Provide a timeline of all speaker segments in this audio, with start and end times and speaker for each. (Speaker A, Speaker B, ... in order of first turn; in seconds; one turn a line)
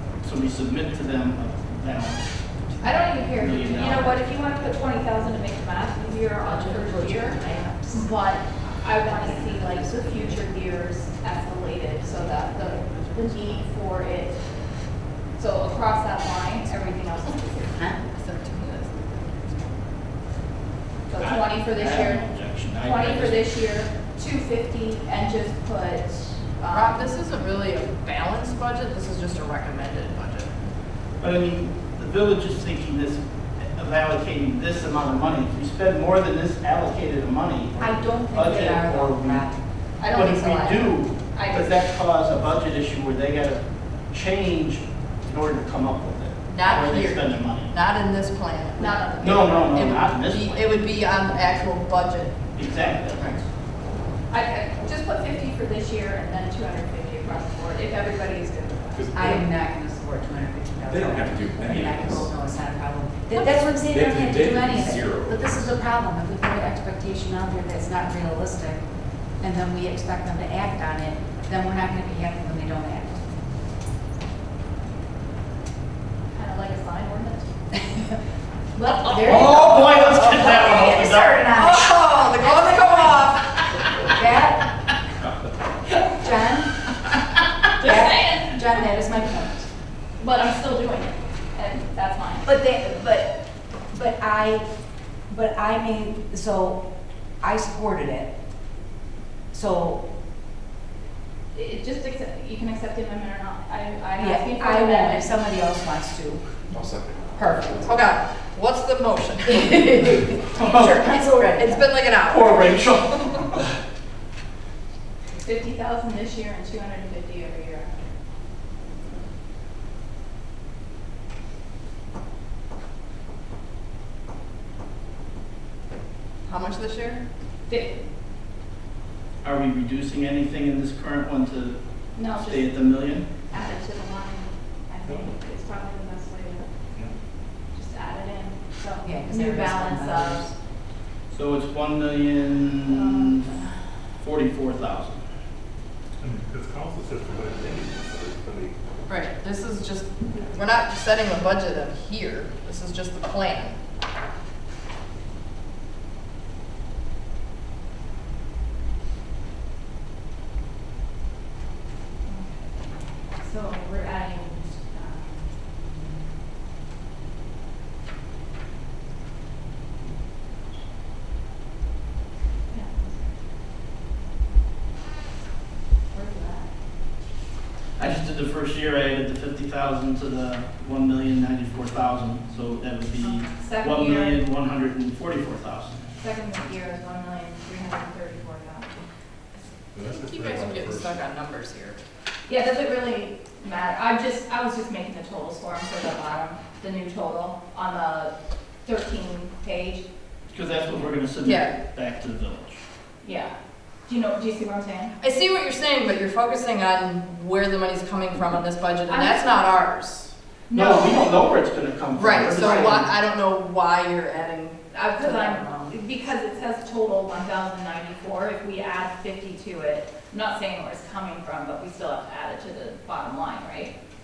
Speaker A: 0.2-2.3
Speaker B: 2.7-3.2
Speaker C: 2.8-14.4
Speaker A: 3.4-4.1
Speaker D: 6.4-8.1
Speaker D: 9.0-10.4
Speaker C: 15.4-17.9
Speaker B: 18.1-19.8
Speaker C: 21.1-27.1
Speaker A: 21.2-23.6
Speaker B: 26.7-30.5
Speaker A: 31.2-39.5
Speaker D: 37.8-39.6
Speaker B: 40.0-40.9
Speaker A: 40.0-47.8
Speaker C: 41.3-41.7
Speaker B: 46.5-53.4
Speaker C: 48.8-49.9
Speaker A: 49.2-50.7
Speaker A: 52.5-53.4
Speaker C: 54.3-59.1
Speaker E: 58.9-59.5
Speaker D: 59.1-68.8
Speaker E: 60.8-62.3
Speaker E: 63.4-65.8
Speaker D: 69.4-73.2
Speaker C: 76.3-77.5
Speaker D: 78.8-83.3
Speaker A: 79.0-81.5
Speaker B: 80.0-80.6
Speaker B: 81.5-83.9
Speaker D: 84.1-84.6
Speaker D: 86.1-86.7
Speaker C: 87.7-89.0
Speaker D: 87.8-89.7
Speaker C: 90.2-92.5
Speaker D: 92.4-93.3
Speaker D: 93.9-94.6
Speaker D: 95.3-96.8
Speaker D: 97.4-98.3
Speaker D: 99.5-100.0
Speaker C: 101.5-105.3
Speaker D: 104.2-106.5
Speaker E: 106.7-107.2
Speaker D: 107.3-107.9
Speaker B: 107.8-110.1
Speaker D: 109.5-111.8
Speaker A: 110.6-111.3
Speaker B: 111.6-113.4
Speaker A: 112.2-113.5
Speaker C: 115.4-118.1
Speaker B: 126.5-127.2
Speaker C: 127.7-128.0
Speaker A: 129.4-133.3
Speaker C: 132.2-136.7
Speaker C: 137.7-140.5
Speaker D: 139.0-140.5
Speaker A: 141.3-143.5
Speaker C: 142.9-143.7
Speaker A: 144.2-145.2
Speaker F: 146.2-148.8
Speaker B: 149.1-153.8
Speaker C: 162.2-165.5
Speaker C: 172.7-173.3
Speaker C: 176.1-176.7
Speaker A: 178.0-186.0
Speaker C: 183.2-184.4
Speaker C: 186.2-189.1
Speaker F: 189.9-191.2
Speaker B: 190.0-192.0
Speaker C: 192.5-198.3
Speaker C: 198.8-200.0
Speaker A: 200.5-202.8
Speaker B: 201.4-201.7
Speaker C: 203.2-203.5
Speaker C: 204.1-205.1
Speaker B: 205.2-210.3
Speaker C: 209.1-209.6
Speaker C: 210.7-211.3
Speaker A: 210.7-213.1
Speaker B: 212.2-215.9
Speaker C: 212.6-212.9
Speaker C: 214.9-223.9